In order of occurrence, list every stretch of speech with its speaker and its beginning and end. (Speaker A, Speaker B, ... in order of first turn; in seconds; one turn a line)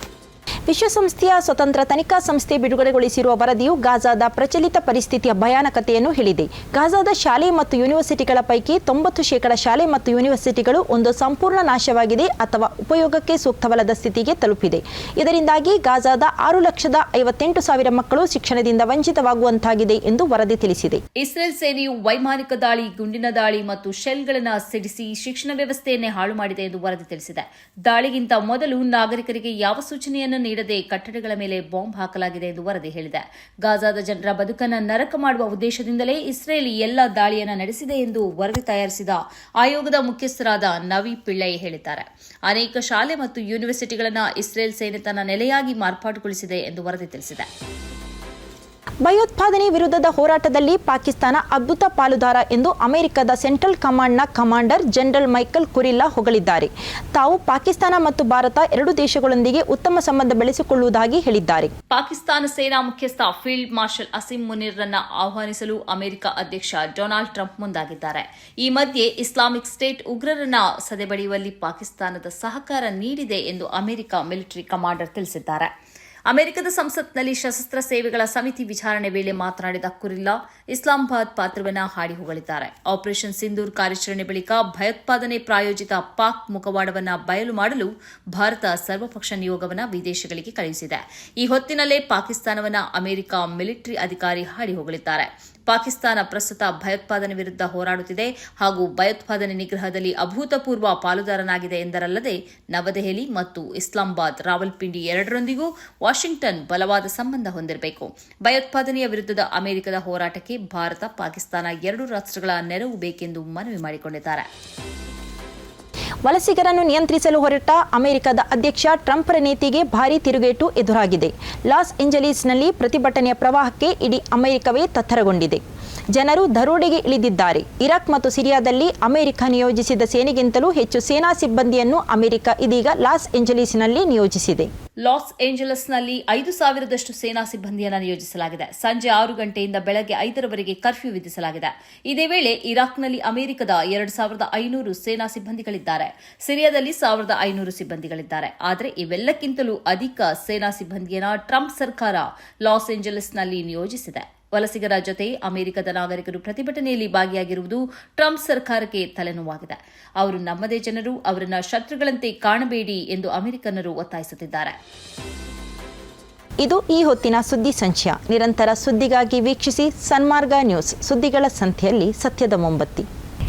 Speaker A: 0.7-21.0
Speaker B: 21.2-47.5
Speaker A: 49.0-61.7
Speaker B: 61.9-75.7
Speaker B: 76.3-114.5
Speaker A: 116.2-125.6
Speaker A: 126.1-134.7
Speaker B: 135.1-164.8
Speaker A: 166.6-173.1